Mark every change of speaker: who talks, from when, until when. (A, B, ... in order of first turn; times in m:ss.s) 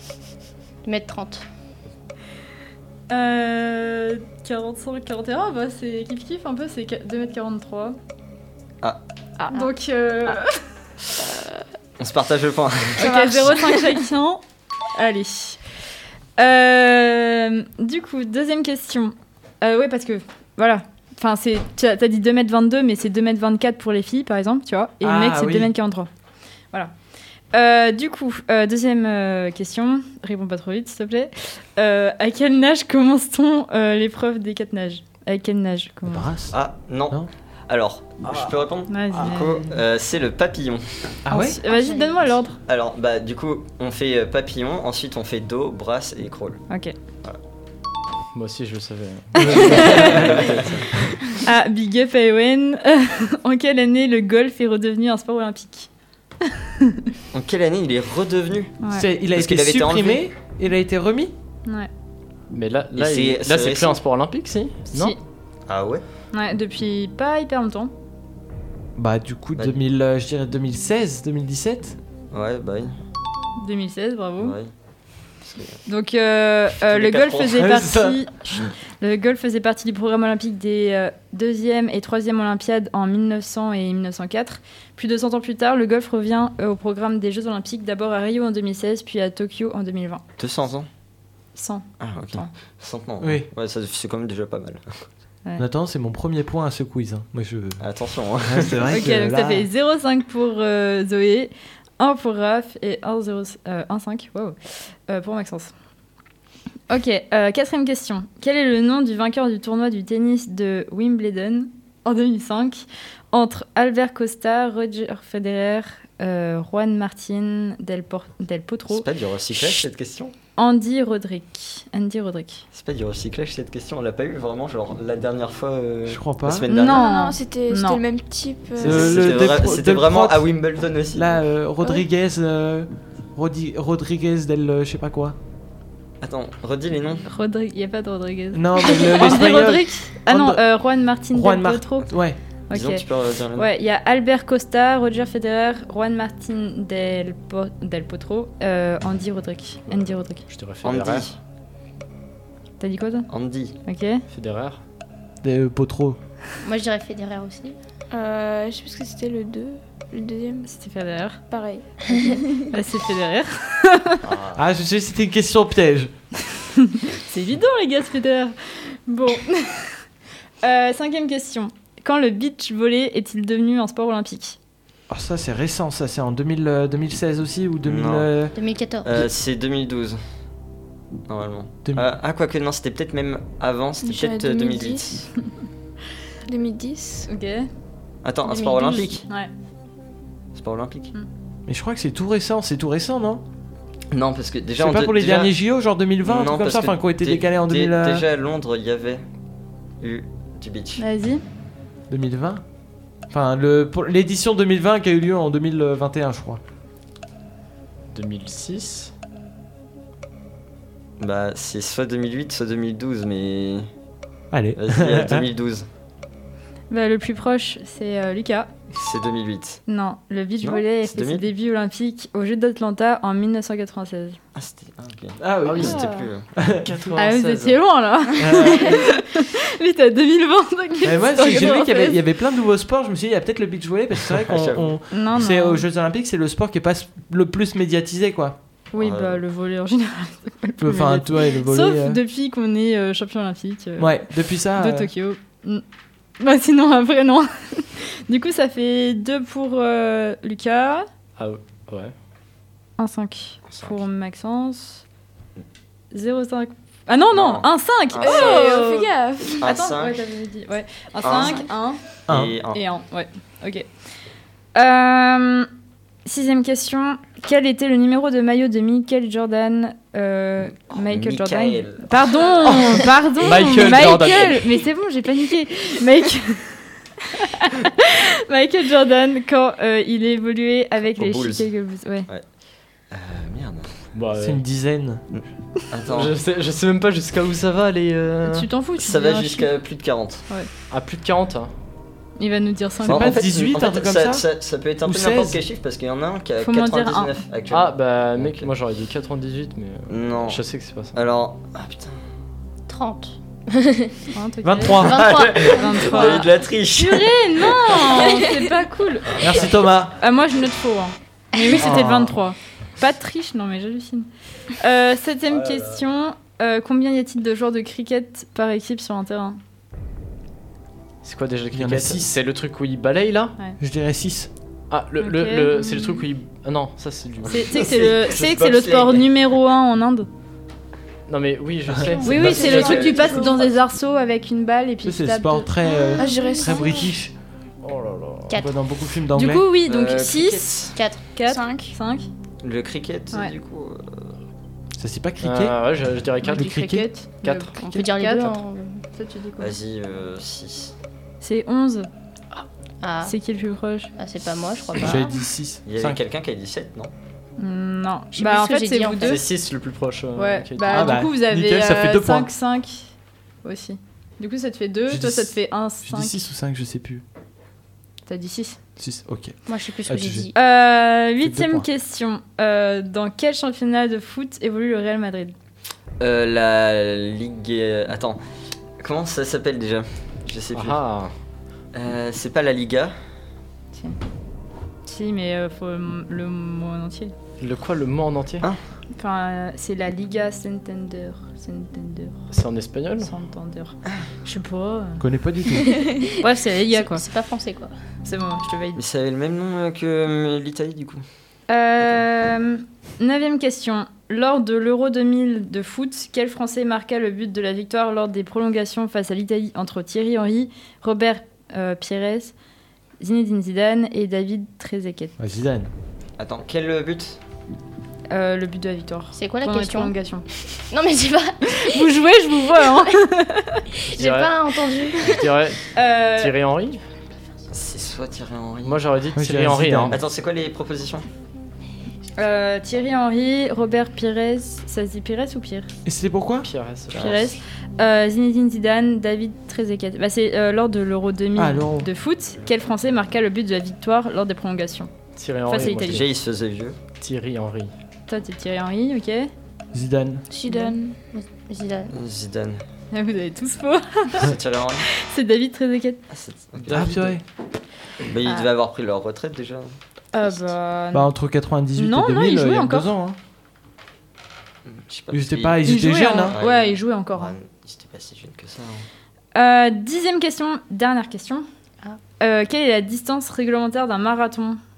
0:00.8-0:01.4 A
0:03.1-0:08.0 B
0:09.5-0:10.6 B
0:12.0-0:13.5 C
0:13.0-0:14.4 B
0:13.0-0:14.0 D
0:14.9-0:15.6 B
0:16.4-0:26.1 B
0:25.0-0:25.7 E
0:27.5-0:36.3 B
0:36.0-0:36.5 E
0:36.5-0:41.1 C
0:38.2-0:38.5 E
0:38.9-0:39.8 B
0:41.2-0:41.6 E
0:41.3-0:42.5 B
0:41.6-0:42.5 A
0:42.6-0:46.6 C
0:48.3-0:51.1 F
0:49.4-0:49.8 E
0:49.8-0:50.8 C
0:51.4-0:55.9 B
0:57.3-0:58.8 C
0:58.9-1:01.3 E
0:59.3-1:00.2 C
1:02.5-1:05.1 F
1:02.9-1:04.0 C
1:04.9-1:05.2 B
1:05.7-1:06.0 C
1:06.3-1:07.9 B
1:09.0-1:12.0 E
1:09.5-1:09.8 C
1:12.3-1:13.0 C
1:13.6-1:14.6 B
1:14.4-1:14.7 C
1:15.4-1:15.8 C
1:15.9-1:30.2 B
1:16.8-1:17.8 C
1:17.6-1:18.2 E
1:30.4-1:30.9 C
1:31.5-1:32.5 B
1:32.0-1:35.0 C
1:33.2-1:33.5 E
1:35.6-1:37.8 E
1:37.8-1:38.9 C
1:38.4-1:39.7 E
1:38.9-1:45.7 B
1:46.9-1:59.0 B
1:58.9-2:00.3 C
2:00.6-2:02.6 B
2:02.7-2:07.1 C
2:06.1-2:06.6 E
2:06.7-2:08.0 B
2:06.8-2:09.3 D
2:08.8-2:11.4 C
2:08.8-2:10.4 E
2:11.1-2:15.4 E
2:16.2-2:17.2 C
2:17.3-2:22.2 B
2:18.5-2:20.6 E
2:21.3-2:22.4 E
2:22.7-2:23.0 B
2:22.7-2:23.7 C
2:23.5-2:30.4 B
2:29.9-2:30.1 C
2:30.5-2:31.3 F
2:30.8-2:31.4 C
2:32.8-2:33.3 B
2:33.3-2:33.8 C
2:33.8-2:34.2 B
2:34.3-2:34.8 F
2:35.4-2:36.2 E
2:36.6-2:37.8 A
2:38.1-2:40.6 D
2:40.6-2:41.4 B
2:41.5-2:42.7 D
2:42.1-2:44.2 B
2:44.2-2:44.6 C
2:44.6-2:46.1 E
2:46.8-2:50.0 B
2:50.6-2:54.6 B
2:55.1-2:58.5 E
2:57.8-2:58.4 C
2:58.5-2:59.2 A
2:59.0-3:00.2 C
3:01.3-3:05.3 C
3:04.0-3:05.3 D
3:06.4-3:07.3 D
3:07.3-3:07.7 B
3:08.2-3:09.2 C
3:08.5-3:09.5 B
3:10.5-3:11.1 C
3:11.7-3:13.4 E
3:14.1-3:15.5 C
3:14.8-3:18.2 E
3:16.2-3:19.2 C
3:20.0-3:21.0 C
3:21.0-3:21.4 B
3:22.1-3:22.6 E
3:23.3-3:26.6 E
3:28.1-3:29.1 F
3:31.2-3:33.9 C
3:34.5-3:35.5 E
3:34.7-3:35.9 C
3:36.9-3:38.7 B
3:39.0-3:39.8 C
3:39.9-3:44.4 B
3:40.6-3:41.5 C
3:44.5-3:46.6 C
3:45.4-3:46.0 E
3:45.6-3:46.0 F
3:45.9-3:46.2 B
3:46.6-3:47.0 E
3:46.8-3:47.8 F
3:47.2-3:52.2 B
3:48.4-3:49.0 E
3:51.0-3:58.6 E
3:54.3-3:54.9 C
3:55.1-3:55.8 B
3:58.9-4:05.8 B
3:59.0-3:59.4 C
4:00.8-4:02.2 E
4:04.0-4:05.1 E
4:06.4-4:11.1 B
4:11.4-4:12.1 F
4:13.0-4:15.0 B
4:13.6-4:14.0 C
4:16.1-4:22.0 B
4:17.3-4:18.7 C
4:18.2-4:19.6 D
4:19.6-4:20.2 C
4:21.2-4:21.7 C
4:22.3-4:22.6 E
4:22.3-4:22.8 C
4:22.7-4:23.9 B
4:24.7-4:25.7 B
4:26.2-4:36.8 B
4:30.9-4:32.8 C
4:33.4-4:34.7 F
4:37.4-4:42.3 B
4:41.2-4:41.7 C
4:43.1-4:44.1 C
4:44.1-4:44.6 F
4:44.4-4:45.2 E
4:45.3-4:46.3 C
4:46.1-4:48.7 F
4:48.4-4:49.7 B
4:49.0-4:50.5 C
4:50.9-4:51.7 F
4:52.4-4:53.4 B
4:53.0-4:58.7 C
4:53.0-4:54.4 E
4:55.0-4:55.6 E
4:56.6-4:57.4 B
4:57.7-5:01.2 F
5:00.1-5:02.2 C
5:02.9-5:04.1 A
5:04.3-5:19.6 B
5:04.6-5:05.5 E
5:05.0-5:06.4 A
5:05.0-5:08.2 C
5:09.4-5:10.1 E
5:09.5-5:09.7 C
5:11.8-5:12.3 E
5:15.5-5:16.1 C
5:21.2-5:23.5 F
5:21.7-5:22.3 E
5:23.8-5:24.5 E
5:24.9-5:27.6 F
5:25.2-5:26.2 B
5:27.5-5:30.3 B
5:27.5-5:29.3 C
5:31.3-5:33.2 F
5:32.0-5:32.7 E
5:32.1-5:33.6 D
5:32.2-5:37.1 B
5:32.5-5:33.8 C
5:35.0-5:37.3 E
5:35.8-5:37.1 D
5:37.8-5:38.6 F
5:38.5-5:38.8 A
5:38.6-5:39.6 E
5:39.3-5:42.3 B
5:39.8-5:41.0 C
5:40.9-5:41.3 A
5:41.4-5:41.9 D
5:42.6-5:44.4 C
5:45.0-5:45.8 E
5:45.4-5:46.8 F
5:46.4-5:48.6 B
5:46.5-5:47.1 E
5:47.4-5:47.8 F
5:47.8-5:49.0 A
5:49.1-5:49.7 B
5:49.6-5:50.9 C
5:51.4-5:52.1 B
5:53.0-5:53.3 A
5:53.2-5:54.1 B
5:54.2-5:55.2 A
5:55.0-5:56.2 E
5:55.8-5:57.1 C
5:57.6-5:59.4 B
5:58.3-5:59.4 A
5:59.2-6:01.2 F
6:00.4-6:03.1 B
6:00.9-6:02.5 E
6:03.6-6:06.4 B
6:05.1-6:07.2 E
6:08.3-6:08.8 B
6:09.0-6:10.5 E
6:09.6-6:10.5 A
6:10.5-6:15.5 B
6:11.4-6:11.9 E
6:16.2-6:18.4 C
6:19.0-6:21.0 C
6:20.7-6:21.3 F
6:21.9-6:23.2 C
6:23.9-6:24.2 B
6:25.0-6:27.3 B
6:27.6-6:28.7 F
6:29.1-6:32.4 B
6:32.5-6:33.3 F
6:33.2-6:35.2 B
6:35.2-6:36.0 E
6:35.8-6:37.2 B
6:36.9-6:37.9 A
6:38.2-6:39.0 B
6:38.9-6:41.2 C
6:41.7-6:52.5 B
6:53.2-6:55.4 B
6:55.4-6:55.9 E
6:56.4-6:57.4 C
6:58.3-7:00.4 B
6:59.3-7:00.1 A
7:00.9-7:02.0 A
7:01.7-7:03.8 B
7:04.0-7:05.4 A
7:04.1-7:04.6 F
7:05.2-7:07.0 F
7:05.9-7:06.6 B
7:07.7-7:09.0 C
7:08.8-7:10.2 F
7:09.4-7:10.2 E
7:10.1-7:11.3 C
7:12.4-7:15.9 B
7:16.0-7:16.7 E
7:16.6-7:17.3 F
7:17.1-7:17.6 C
7:17.1-7:25.1 B
7:21.6-7:22.1 E
7:25.4-7:26.3 F
7:25.6-7:26.2 B
7:25.8-7:27.0 C
7:27.2-7:27.9 F
7:28.3-7:29.5 B
7:29.9-7:30.4 E
7:30.5-7:31.2 D
7:30.7-7:31.0 B
7:31.3-7:32.1 A
7:32.1-7:32.8 C
7:33.1-7:34.5 B
7:34.4-7:35.1 C
7:35.2-7:36.2 B
7:36.3-7:37.4 C
7:36.9-7:37.3 F
7:36.9-7:37.4 E
7:38.2-7:39.9 C
7:40.3-7:41.3 B
7:41.1-7:43.4 E
7:42.0-7:43.1 B
7:44.8-7:49.0 C
7:45.3-7:46.5 E
7:45.8-7:47.5 B
7:49.5-7:51.6 B
7:52.4-7:54.8 B